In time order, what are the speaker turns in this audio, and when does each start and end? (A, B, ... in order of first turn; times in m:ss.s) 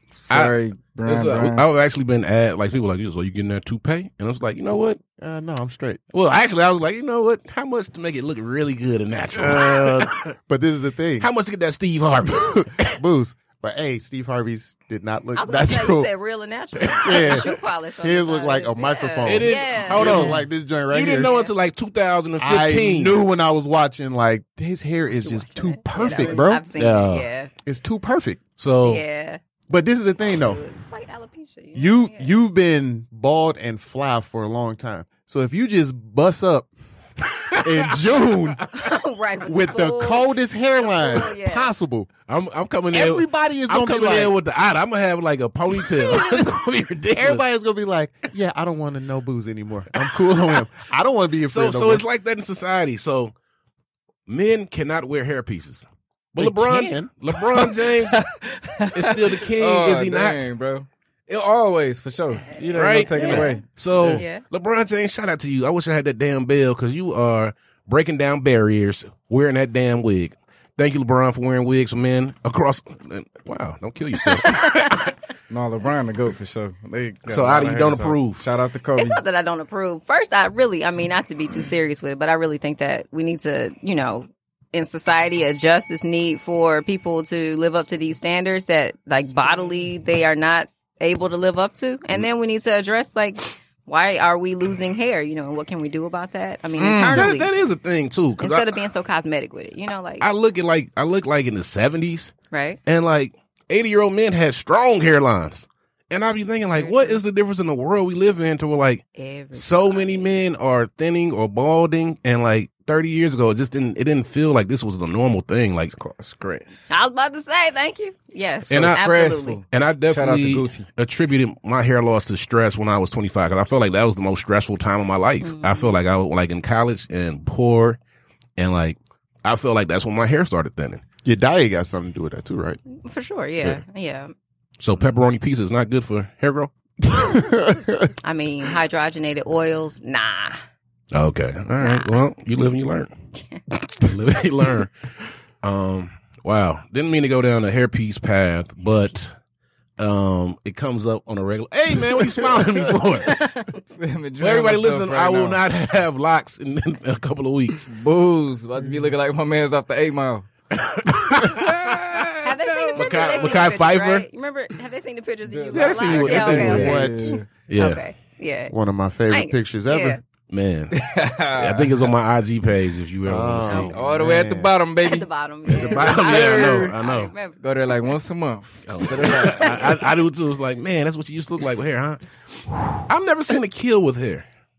0:00.3-0:01.6 A
0:00.3-0:05.0 B
0:05.2-0:06.0 C
0:06.1-0:10.3 B
0:09.4-0:11.3 C
0:11.2-0:13.0 B
0:12.3-0:16.1 C
0:15.4-0:20.4 D
0:16.8-0:17.5 B
0:16.9-0:21.3 C
0:19.2-0:23.2 B
0:21.2-0:21.5 D
0:22.4-0:26.6 C
0:25.2-0:27.5 D
0:26.1-0:27.3 B
0:27.6-0:28.4 C
0:28.6-0:29.0 B
0:28.8-0:29.4 D
0:29.7-0:30.6 C
0:30.3-0:32.3 D
0:31.7-0:36.7 C
0:37.3-0:38.7 B
0:37.5-0:38.7 C
0:38.7-0:41.7 D
0:39.4-0:42.1 C
0:42.3-0:47.4 B
0:42.9-0:44.4 C
0:45.8-0:46.5 C
0:47.1-0:52.0 C
0:50.0-0:50.6 B
0:51.5-0:53.3 B
0:54.3-0:58.2 B
0:56.4-0:57.1 C
0:58.1-1:04.2 A
0:58.9-1:00.5 B
1:02.6-1:15.1 B
1:03.1-1:04.4 D
1:14.3-1:15.1 D
1:15.5-1:19.2 A
1:17.3-1:18.4 B
1:19.0-1:37.5 D
1:36.8-1:38.8 B
1:38.4-1:40.3 D
1:40.2-1:42.3 B
1:42.5-1:42.8 D
1:42.8-1:55.9 B
1:46.7-1:47.2 D
1:49.1-1:50.4 D
1:55.9-1:56.9 A
1:56.9-1:59.6 D
1:58.7-2:00.9 A
1:58.7-1:59.0 B
1:59.7-2:08.0 B
2:05.4-2:05.9 D
2:08.6-2:11.0 B
2:11.2-2:12.8 C
2:12.9-2:14.3 D
2:14.8-2:16.7 B
2:17.1-2:18.1 C
2:18.2-2:20.6 D
2:21.1-2:23.1 B
2:21.8-2:22.2 D
2:24.0-2:24.9 B
2:25.6-2:29.4 B
2:30.0-2:33.5 B
2:33.2-2:33.8 D
2:34.0-2:35.6 A
2:34.4-2:37.9 B
2:37.9-2:40.5 A
2:40.7-2:44.3 B
2:42.4-2:48.7 D
2:45.4-2:47.5 A
2:45.7-2:47.0 B
2:46.4-2:47.4 C
2:47.7-2:48.0 B
2:48.7-2:50.2 C
2:49.3-2:50.2 D
2:50.5-2:53.9 B
2:50.9-2:52.1 A
2:53.2-2:54.7 C
2:53.7-2:56.9 A
2:55.0-2:58.1 D
2:55.7-2:57.3 B
2:57.6-2:59.9 A
2:58.9-3:02.3 B
2:59.2-2:59.9 D
3:02.9-3:04.4 B